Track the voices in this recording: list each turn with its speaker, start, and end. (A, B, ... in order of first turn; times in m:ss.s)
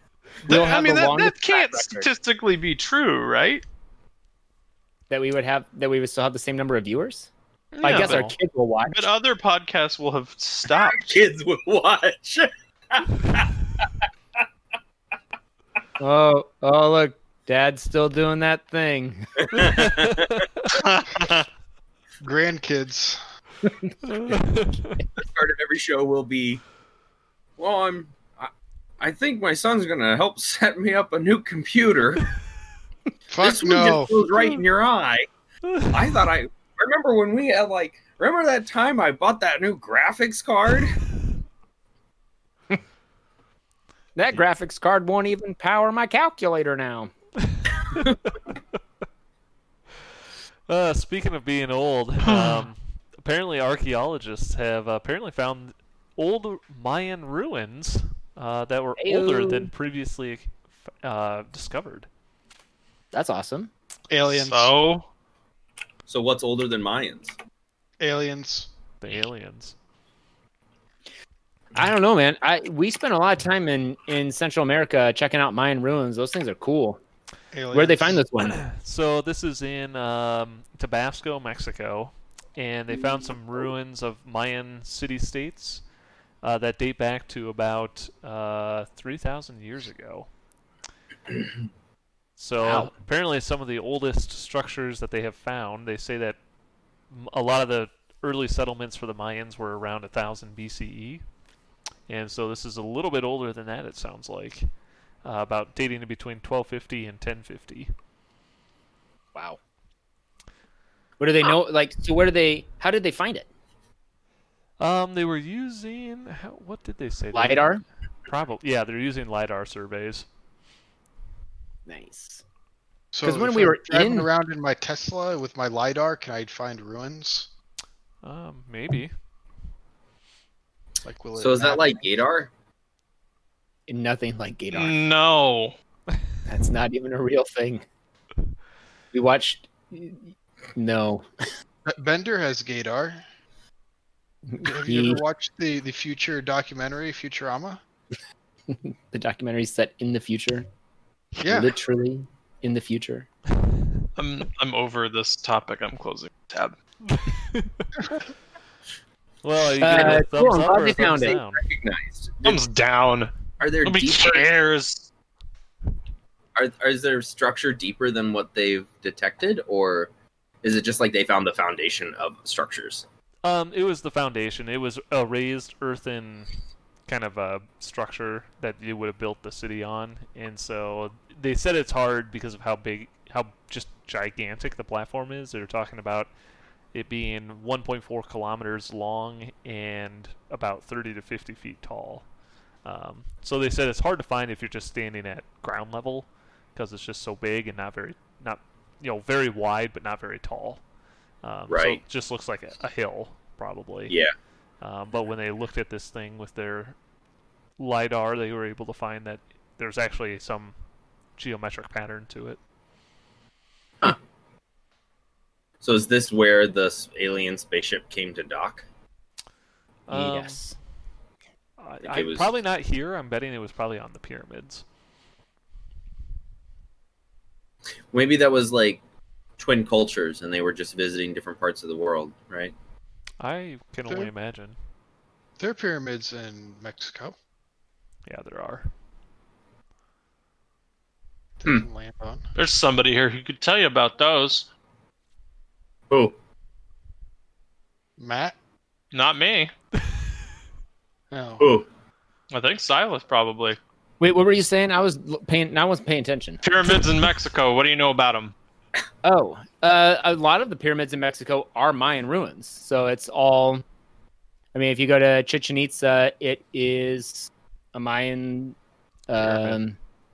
0:00.5-0:02.1 A
0:00.5-0:03.6 B
0:05.1-0:07.3 A
0:07.8-0:08.3 B
0:07.8-0:09.0 A
0:07.9-0:08.3 C
0:08.9-0:11.1 B
0:10.7-0:13.5 D
0:16.0-0:19.6 A
0:19.4-0:20.4 D
0:19.7-0:20.2 C
0:20.7-0:21.5 B
0:22.2-0:23.2 E
0:24.2-0:25.0 C
0:25.2-0:26.6 D
0:27.6-0:32.3 D
0:33.3-0:34.2 E
0:33.4-0:35.3 D
0:35.9-0:40.9 D
0:44.2-0:47.1 A
0:50.7-1:02.1 C
0:52.2-0:52.6 B
0:59.0-0:59.7 A
1:03.1-1:03.7 A
1:04.1-1:04.7 E
1:04.3-1:05.0 B
1:06.1-1:07.3 D
1:08.0-1:08.7 E
1:09.0-1:09.8 C
1:11.8-1:17.0 A
1:17.5-1:18.2 E
1:17.7-1:18.6 A
1:18.4-1:25.8 C
1:26.4-1:30.3 C
1:32.4-1:36.4 C
1:32.6-1:32.9 A
1:37.1-1:41.2 C
1:42.1-1:44.7 C
1:45.2-1:47.9 C
1:51.2-1:53.5 A
1:54.8-1:57.7 C
1:57.3-1:57.8 A
1:58.3-2:00.3 C
2:01.9-2:02.4 A
2:03.1-2:07.5 E
2:03.2-2:04.3 A
2:08.2-2:09.1 C
2:11.0-2:12.0 E
2:11.4-2:12.5 D
2:13.9-2:15.0 A
2:14.7-2:15.8 B
2:16.5-2:17.8 A
2:19.1-2:21.3 A
2:21.9-2:23.2 E
2:24.6-2:25.2 A
2:24.6-2:27.8 E
2:28.7-2:30.6 A
2:31.4-2:31.8 E
2:31.4-2:33.3 A
2:34.2-2:36.8 B
2:37.1-2:37.9 C
2:39.4-2:41.6 C
2:39.8-2:41.4 A
2:39.9-2:40.2 D
2:41.3-2:42.6 D
2:42.4-2:43.3 B
2:43.6-2:44.5 D
2:43.8-2:45.1 B
2:46.6-2:50.1 D
2:50.6-2:53.0 D
2:53.4-2:56.5 C
2:57.1-3:06.3 C
3:06.9-3:12.3 C
3:12.8-3:20.8 C
3:21.4-3:24.2 C
3:21.7-3:22.0 D
3:24.8-3:27.0 C
3:27.8-3:30.7 C
3:31.4-3:32.6 C
3:35.8-3:38.8 D
3:40.1-3:40.6 C
3:40.1-3:40.8 A
3:41.8-3:44.8 C
3:42.0-3:42.5 D
3:48.1-3:49.0 D
3:49.6-3:52.7 D
3:53.4-3:54.8 C
3:55.6-3:57.4 E
3:58.3-3:58.9 C
4:01.6-4:02.4 E
4:02.6-4:04.7 B
4:06.1-4:06.4 D
4:08.2-4:08.6 E
4:09.1-4:09.7 B
4:11.3-4:11.7 E
4:11.6-4:11.9 D
4:12.5-4:13.8 B
4:14.2-4:17.0 A
4:16.6-4:18.5 B
4:19.2-4:23.8 A
4:24.7-4:28.8 A
4:29.3-4:30.0 A
4:29.5-4:29.7 C